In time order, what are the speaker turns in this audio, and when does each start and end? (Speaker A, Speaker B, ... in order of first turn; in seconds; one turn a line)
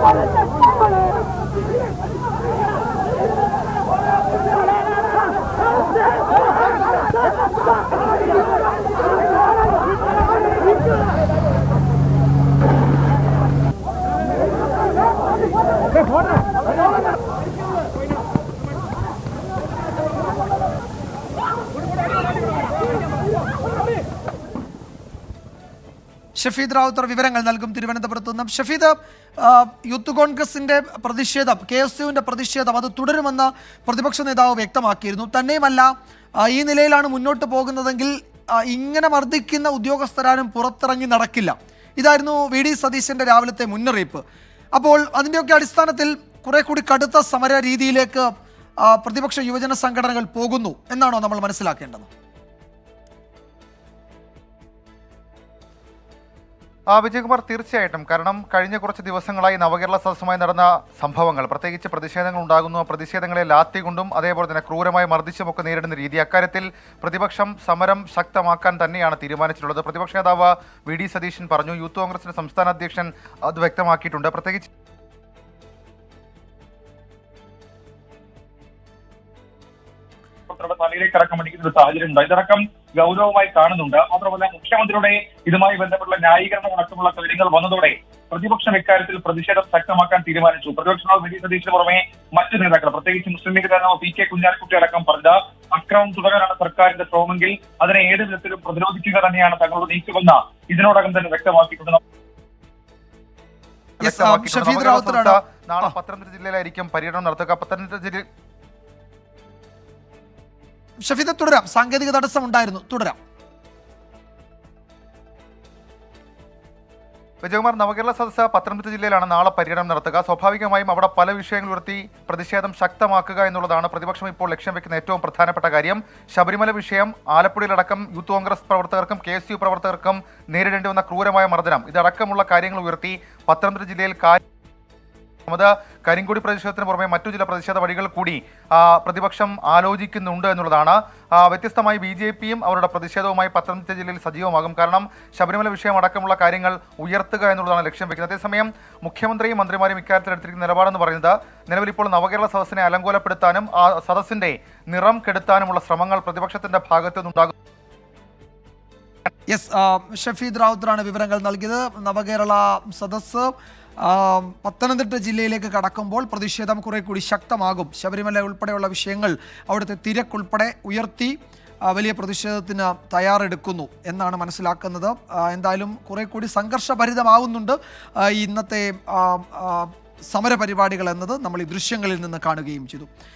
Speaker A: 26.4-44.2
Speaker A: 44.8-48.3
Speaker A: 48.8-52.1
Speaker B: 56.9-74.7
Speaker C: 80.5-102.0
Speaker A: 104.0-105.9
Speaker B: 104.0-108.2
Speaker A: 111.0-113.2
Speaker B: 117.4-134.4
Speaker B: 135.5-157.5
Speaker A: 159.5-183.1